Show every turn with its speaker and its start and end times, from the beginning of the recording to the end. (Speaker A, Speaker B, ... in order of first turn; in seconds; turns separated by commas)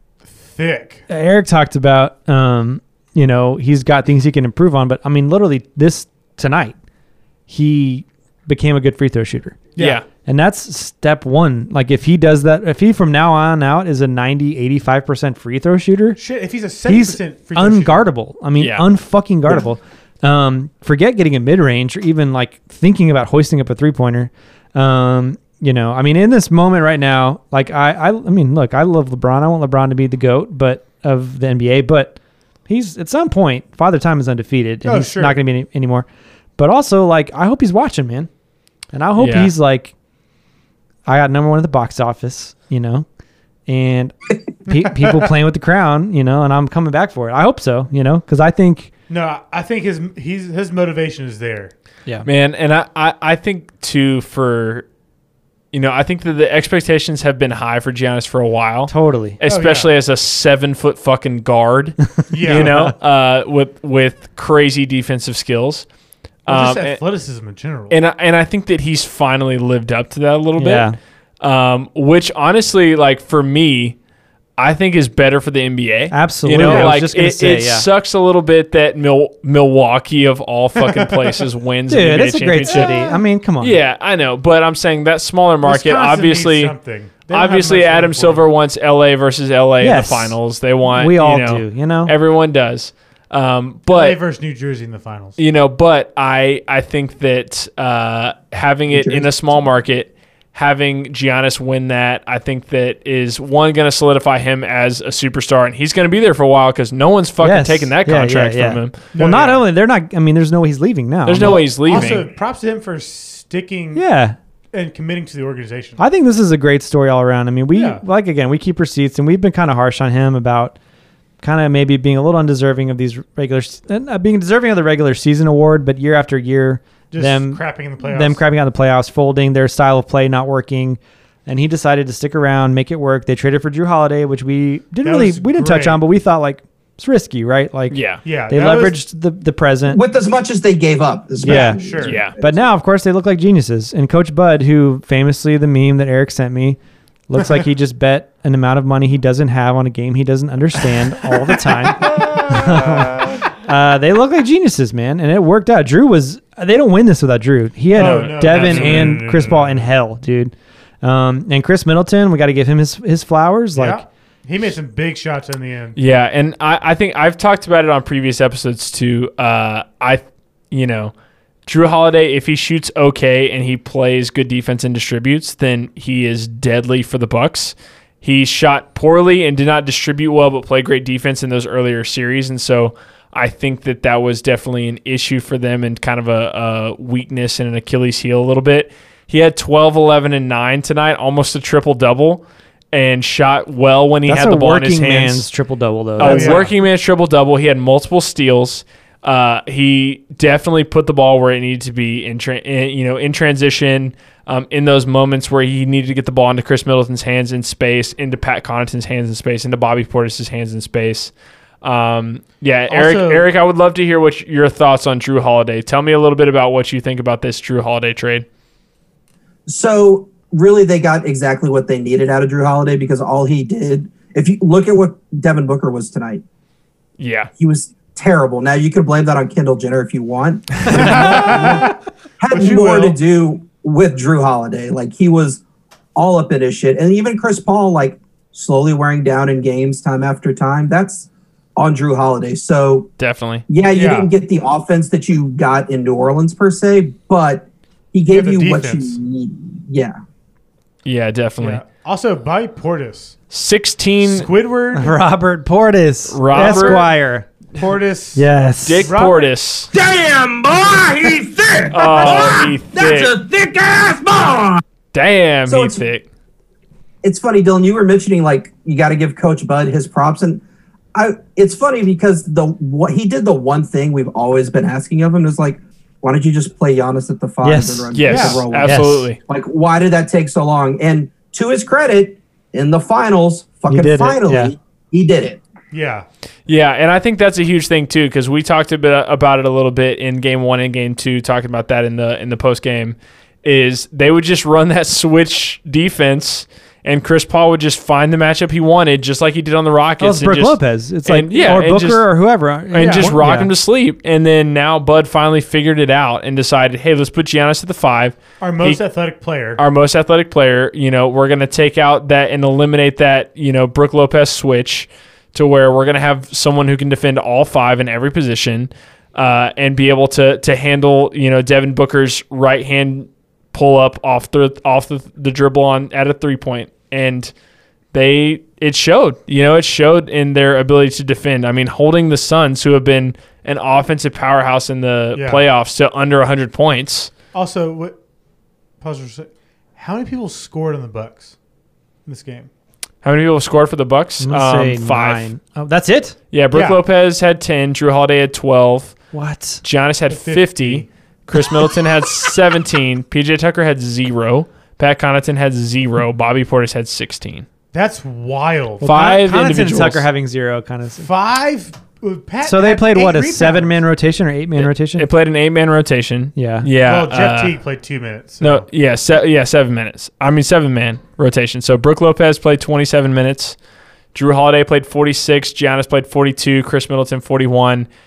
Speaker A: 0.2-1.1, Speaker B: 1.1-6.7, Speaker B: 7.5-9.7, Speaker A: 9.8-10.0, Speaker C: 9.8-10.0, Speaker B: 10.2-16.2, Speaker A: 16.1-18.0, Speaker B: 16.8-36.0, Speaker C: 18.6-18.8, Speaker A: 34.8-35.4, Speaker B: 36.6-38.3, Speaker B: 38.9-39.9, Speaker C: 39.2-39.5, Speaker B: 41.0-43.0, Speaker B: 43.7-48.9, Speaker A: 49.1-51.7, Speaker C: 52.2-54.9, Speaker C: 55.7-65.8, Speaker B: 58.9-59.4, Speaker A: 59.5-59.9, Speaker B: 62.2-62.9, Speaker A: 62.3-62.7, Speaker C: 66.4-67.0, Speaker A: 66.5-68.0, Speaker C: 67.9-74.0, Speaker B: 70.6-71.0, Speaker C: 74.6-82.9, Speaker B: 76.1-77.9, Speaker A: 76.5-76.9, Speaker A: 80.8-81.4, Speaker B: 81.9-83.8, Speaker A: 82.7-83.2, Speaker C: 83.6-86.7, Speaker A: 85.6-88.4, Speaker C: 87.3-94.2, Speaker B: 89.8-92.1, Speaker A: 93.9-95.4, Speaker C: 95.4-109.0, Speaker D: 98.9-99.2, Speaker B: 107.4-112.1, Speaker A: 109.1-109.6, Speaker C: 111.2-112.3, Speaker A: 111.4-114.0, Speaker B: 113.9-114.4, Speaker A: 114.7-116.0, Speaker B: 116.0-120.8, Speaker A: 117.7-118.0, Speaker B: 121.4-140.0, Speaker A: 127.1-128.4, Speaker A: 135.0-136.0, Speaker C: 137.9-138.2, Speaker A: 138.2-139.0, Speaker D: 139.9-142.6, Speaker A: 141.4-142.2, Speaker B: 141.4-164.1, Speaker C: 142.0-142.3, Speaker A: 152.1-152.8, Speaker A: 157.9-159.9, Speaker C: 157.9-159.1, Speaker A: 163.7-166.0, Speaker C: 165.9-171.1, Speaker C: 171.7-195.5, Speaker B: 194.2-196.6, Speaker C: 196.2-218.4, Speaker A: 196.2-196.7, Speaker A: 212.9-213.4, Speaker D: 219.7-226.4, Speaker C: 227.2-227.5, Speaker D: 227.6-235.6, Speaker A: 230.8-231.9, Speaker A: 232.5-233.2, Speaker D: 236.2-243.1, Speaker C: 243.2-243.6, Speaker D: 243.7-250.1, Speaker A: 243.9-244.3, Speaker A: 248.3-249.2, Speaker C: 251.0-251.8, Speaker A: 251.6-253.3, Speaker C: 253.5-254.5, Speaker A: 254.2-255.2, Speaker B: 254.9-257.5, Speaker C: 256.3-257.0, Speaker A: 256.5-257.1, Speaker A: 257.7-258.5, Speaker B: 258.3-259.1, Speaker C: 258.8-259.9, Speaker A: 259.0-259.5, Speaker E: 259.9-262.6, Speaker C: 261.9-263.4, Speaker D: 262.0-262.7, Speaker E: 263.2-264.8, Speaker C: 265.1-266.2, Speaker D: 265.7-266.0, Speaker D: 267.2-270.6, Speaker D: 271.1-285.6, Speaker B: 277.6-278.1, Speaker C: 278.1-279.4, Speaker A: 278.3-278.6, Speaker B: 278.8-279.3, Speaker B: 283.9-284.7, Speaker A: 285.9-286.2, Speaker C: 286.7-302.2, Speaker B: 300.2-303.7, Speaker C: 302.9-309.0, Speaker A: 303.0-303.3, Speaker A: 308.6-309.8, Speaker C: 309.8-327.5, Speaker C: 328.1-337.3, Speaker A: 335.3-335.6, Speaker A: 337.5-338.1, Speaker A: 339.0-341.5, Speaker A: 342.2-342.7, Speaker C: 343.2-345.5, Speaker B: 344.4-346.4, Speaker C: 346.5-349.1, Speaker A: 346.7-347.0, Speaker B: 349.3-349.8, Speaker C: 349.8-357.6, Speaker A: 350.3-351.1, Speaker A: 357.9-359.1, Speaker B: 359.0-361.3, Speaker C: 359.0-360.2, Speaker A: 361.2-364.0, Speaker B: 362.6-365.3, Speaker C: 364.8-367.8, Speaker B: 366.6-366.9, Speaker A: 367.0-368.9, Speaker C: 368.6-373.8, Speaker C: 374.3-378.1